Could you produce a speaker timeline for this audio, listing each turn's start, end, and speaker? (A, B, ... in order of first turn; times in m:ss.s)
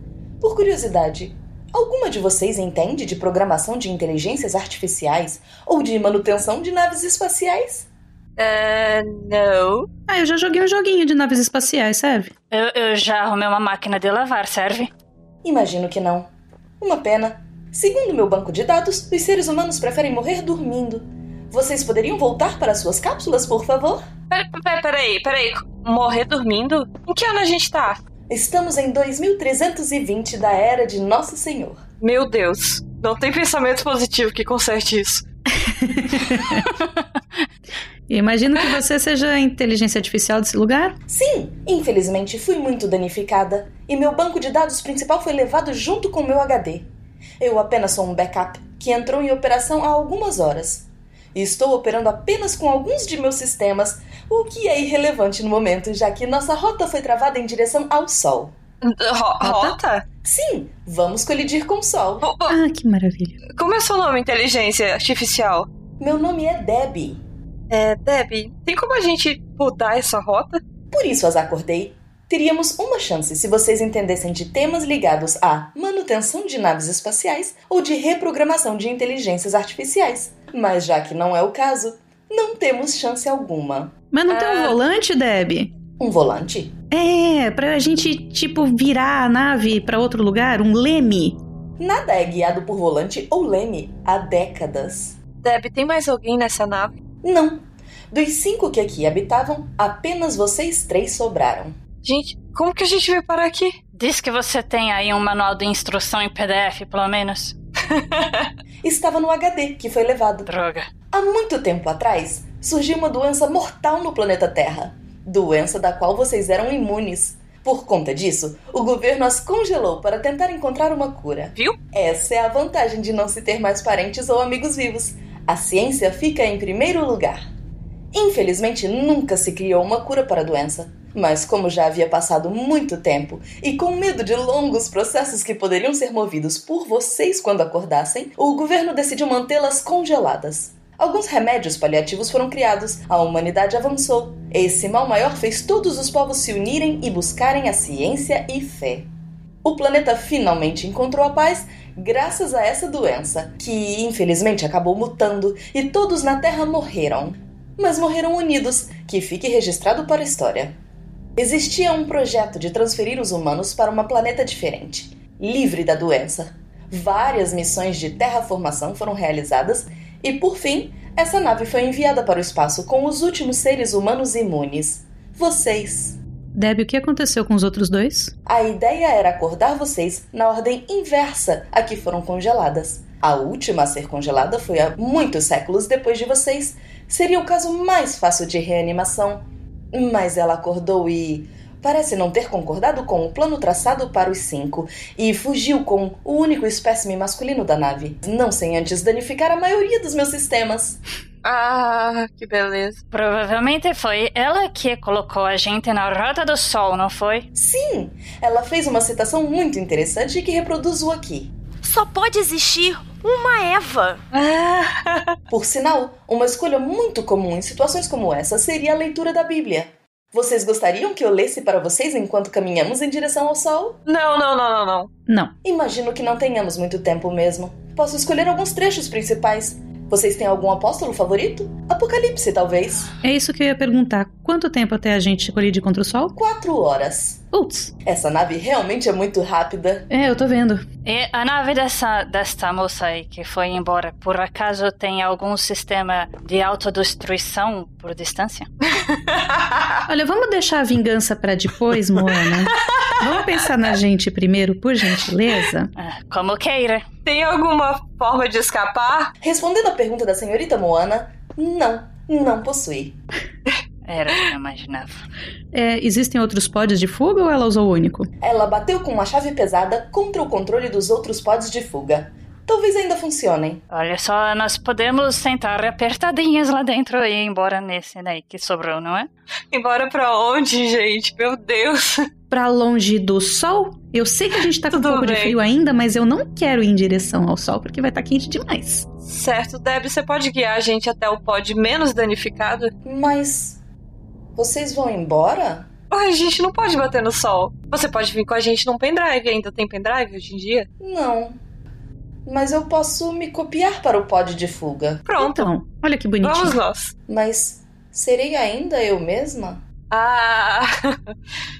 0:00.4-0:07.8 A
0:08.4-0:09.9 B
0:10.1-0:12.3 C
0:12.5-0:14.9 D
0:15.4-0:16.3 A
0:16.8-0:24.0 A
0:24.3-0:28.0 B
0:28.3-0:31.8 A
0:32.0-0:35.2 B
0:35.6-0:36.6 C
0:38.1-0:41.0 C
0:41.1-0:46.9 A
0:47.4-0:58.5 A
0:58.8-1:00.0 B
0:59.4-0:59.8 C
1:00.2-1:02.3 A
1:02.2-1:02.6 B
1:02.5-1:03.4 C
1:03.5-1:05.7 B
1:06.0-1:07.2 A
1:07.7-1:10.6 B
1:10.9-1:23.9 A
1:24.1-1:25.7 C
1:24.3-1:24.8 B
1:26.0-1:26.7 A
1:26.9-1:31.4 C
1:31.8-1:35.2 A
1:35.4-1:37.0 B
1:37.2-1:41.8 A
1:42.0-1:43.8 B
1:43.9-1:47.5 D
1:47.9-1:48.5 B
1:48.8-1:50.5 A
1:50.4-1:50.9 D
1:51.1-2:07.4 A
2:08.1-2:29.1 A
2:29.6-2:40.7 A
2:41.4-2:56.2 A
2:56.5-2:58.3 C
2:58.5-3:21.0 A
3:21.4-3:23.0 B
3:23.1-3:27.5 D
3:27.5-3:31.5 A
3:31.8-3:34.2 E
3:34.3-3:35.3 B
3:35.5-3:44.0 A
3:44.0-3:45.1 B
3:45.3-3:45.5 C
3:45.6-3:53.1 A
3:53.2-3:56.3 C
3:56.3-3:57.4 A
3:57.5-3:57.9 C
3:58.0-4:00.1 A
4:00.1-4:00.8 C
4:01.0-4:08.7 D
4:09.0-4:09.8 B
4:10.1-4:15.9 C
4:16.0-4:17.0 D
4:17.2-4:19.3 B
4:19.4-4:23.2 A
4:24.0-4:25.2 D
4:25.7-4:28.3 C
4:28.4-4:33.8 A
4:33.9-4:39.3 D
4:39.7-4:42.3 B
4:42.5-4:49.0 C
4:44.9-4:45.6 B
4:49.2-4:52.9 B
4:53.0-4:53.8 A
4:54.6-4:55.9 A
4:56.1-5:00.9 B
5:01.0-5:01.6 A
5:02.4-5:05.2 A
5:05.2-5:05.7 B
5:05.4-5:06.8 C
5:06.4-5:07.1 B
5:07.3-5:09.8 A
5:10.1-5:11.3 B